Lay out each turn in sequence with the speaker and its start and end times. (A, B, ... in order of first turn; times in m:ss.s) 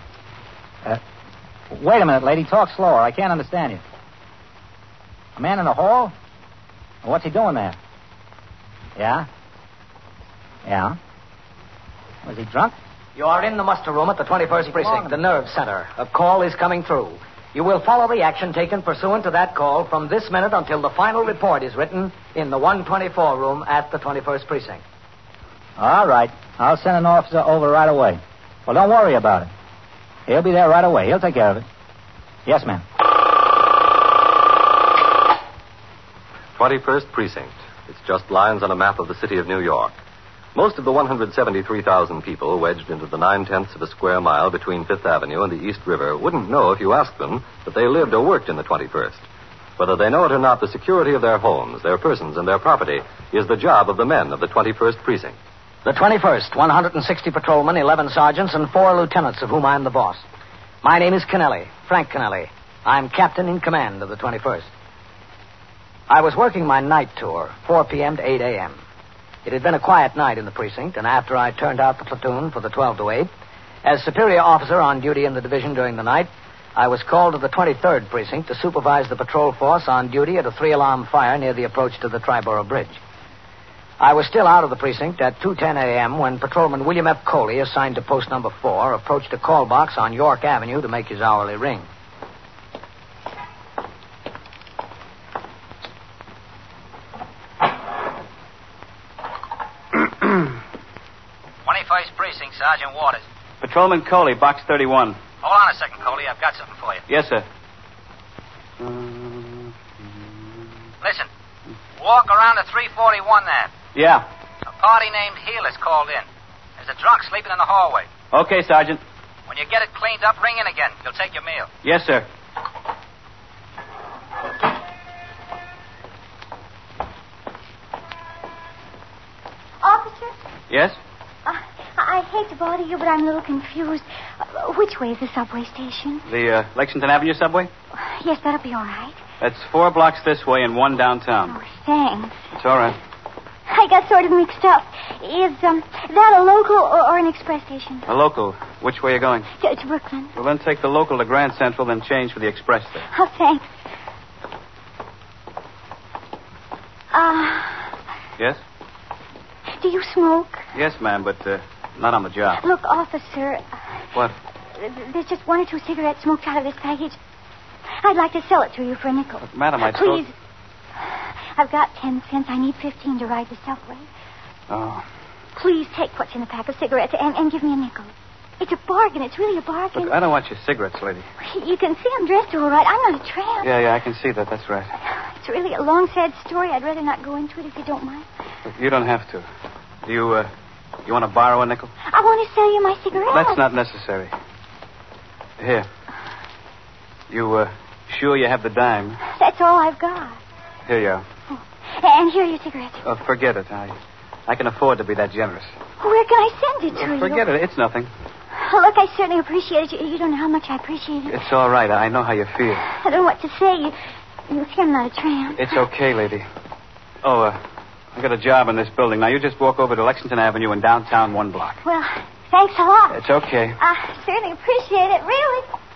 0:01.7-0:03.8 A
0:05.4-0:06.1 A
0:07.0-0:07.8 A
0:09.0-0:09.3 A
0:10.6-0:11.0 A
0:12.2-0:12.7 A
0:13.2-0:24.8 B
0:14.6-0:15.2 A
0:25.8-0:29.5 A
0:30.3-0:31.7 A
0:32.5-0:32.8 A
0:36.6-0:39.9 C
0:40.5-0:49.2 C
0:49.8-0:55.4 C
0:55.8-1:00.2 B
1:00.8-1:04.7 B
1:06.1-1:08.8 B
1:09.4-1:13.3 B
1:13.8-1:23.0 B
1:24.0-1:31.9 B
1:41.6-1:43.2 D
1:43.6-1:45.2 E
1:45.4-1:47.0 D
1:47.1-1:47.4 E
1:48.8-1:49.7 E
1:51.0-1:51.3 D
1:52.0-1:53.7 D
1:54.0-1:54.2 E
1:54.7-1:56.3 D
1:56.8-1:58.1 D
1:58.3-1:59.0 E
1:59.5-2:01.7 D
2:01.8-2:02.3 E
2:09.8-2:10.3 F
2:10.7-2:11.0 E
2:11.5-2:16.2 F
2:16.3-2:17.7 E
2:18.0-2:19.2 F
2:19.4-2:21.6 E
2:21.5-2:22.4 F
2:22.5-2:23.0 E
2:23.7-2:28.0 F
2:28.1-2:29.5 E
2:29.6-2:30.3 F
2:30.4-2:33.1 E
2:33.1-2:33.7 F
2:37.1-2:37.9 F
2:39.7-2:40.6 F
2:40.7-2:42.6 E
2:42.5-2:43.7 F
2:44.8-2:47.2 F
2:48.0-2:50.3 F
2:49.5-2:50.3 E
2:51.5-2:54.1 F
2:54.7-2:55.0 E
2:55.6-3:00.2 F
2:59.9-3:01.3 E
3:01.4-3:03.7 F
3:03.6-3:04.9 E
3:05.4-3:08.2 F
3:08.8-3:09.5 E
3:10.0-3:10.5 E
3:11.0-3:11.9 E
3:12.1-3:13.6 F
3:13.2-3:14.3 E
3:15.6-3:15.9 E
3:17.3-3:19.2 E
3:19.3-3:20.4 F
3:20.9-3:21.2 E
3:22.0-3:23.0 F
3:23.0-3:24.0 E
3:24.5-3:25.7 E
3:26.0-3:27.4 F
3:26.9-3:28.1 E
3:28.6-3:31.4 F
3:31.2-3:32.8 E
3:32.8-3:34.0 F
3:34.5-3:35.8 F
3:35.6-3:36.4 E
3:37.2-3:37.6 E
3:38.2-3:41.8 E
3:41.8-3:43.2 F
3:43.1-3:43.8 E
3:43.8-3:45.7 F